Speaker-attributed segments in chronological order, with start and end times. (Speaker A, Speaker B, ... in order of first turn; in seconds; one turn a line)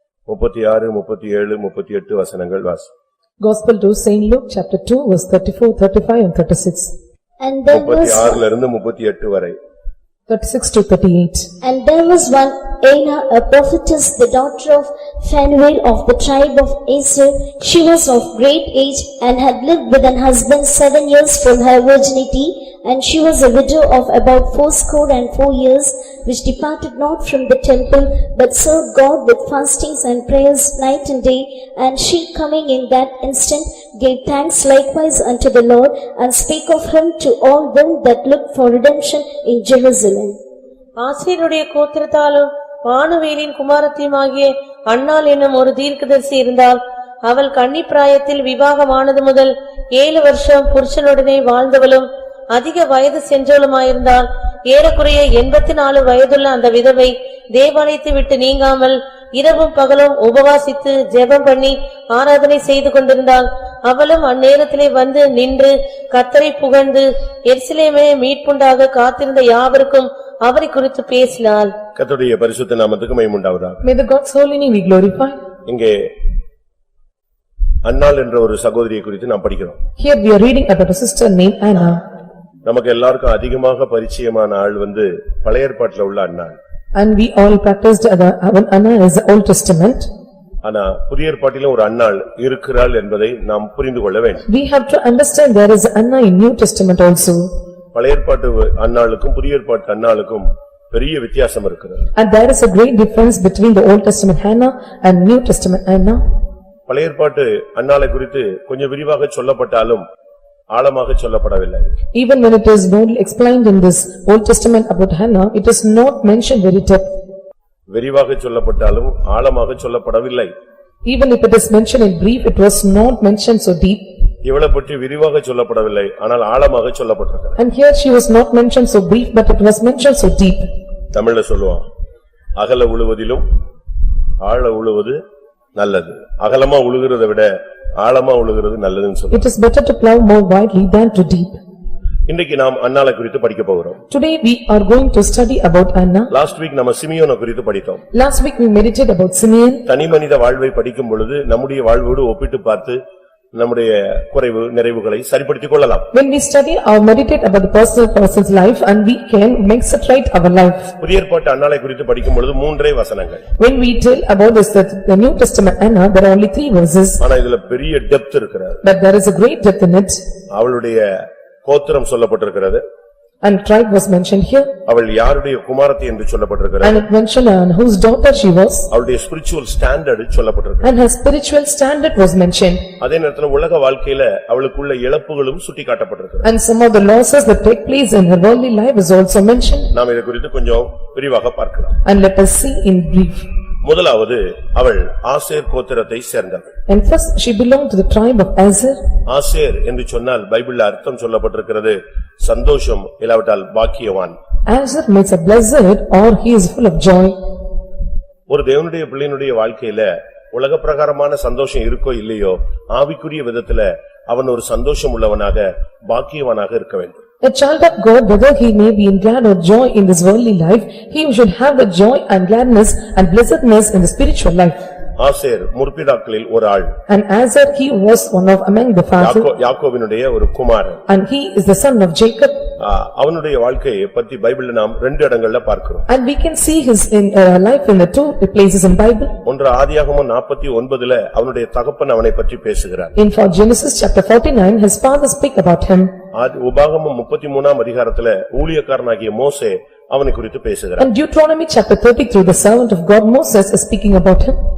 Speaker A: 0.3-2.9
Speaker B: 3.4-6.9
Speaker C: 7.4-8.4
Speaker A: 7.7-9.6
Speaker B: 10.3-11.5
Speaker C: 11.6-40.4
Speaker D: 41.0-71.7
Speaker A: 72.0-73.8
Speaker B: 73.8-75.4
Speaker A: 75.7-76.1
Speaker A: 77.8-79.8
Speaker B: 80.0-82.0
Speaker A: 82.7-86.6
Speaker B: 87.0-90.1
Speaker A: 90.6-94.4
Speaker B: 94.5-97.5
Speaker A: 97.9-102.1
Speaker B: 102.1-106.2
Speaker A: 106.9-110.0
Speaker A: 110.7-111.9
Speaker B: 112.1-117.1
Speaker A: 117.9-120.5
Speaker B: 121.0-124.1
Speaker A: 124.4-127.6
Speaker B: 127.6-130.7
Speaker A: 131.1-131.8
Speaker A: 132.6-133.4
Speaker A: 134.4-135.2
Speaker A: 135.8-139.4
Speaker B: 139.3-141.6
Speaker A: 142.3-144.0
Speaker B: 144.1-146.3
Speaker A: 146.3-148.0
Speaker B: 148.1-149.8
Speaker A: 149.9-153.0
Speaker A: 153.5-156.1
Speaker B: 156.1-160.9
Speaker A: 161.0-163.4
Speaker B: 163.6-167.2
Speaker A: 167.2-168.8
Speaker B: 168.8-170.2
Speaker A: 170.5-172.8
Speaker B: 173.4-174.7
Speaker A: 174.8-177.0
Speaker B: 176.8-178.9
Speaker A: 178.9-180.9
Speaker B: 180.8-182.8
Speaker A: 183.0-186.5
Speaker B: 186.4-189.9
Speaker A: 189.9-192.0
Speaker B: 192.0-193.5
Speaker A: 193.8-196.7
Speaker B: 196.9-199.0
Speaker A: 199.3-204.3
Speaker B: 204.7-207.4
Speaker A: 208.5-217.2
Speaker B: 217.4-224.8
Speaker A: 225.2-226.9
Speaker B: 227.1-229.5
Speaker A: 229.2-231.0
Speaker B: 231.1-232.6
Speaker A: 232.8-236.1
Speaker B: 236.1-239.3
Speaker A: 239.4-243.1
Speaker B: 243.2-246.1
Speaker A: 246.3-251.1
Speaker B: 251.0-254.6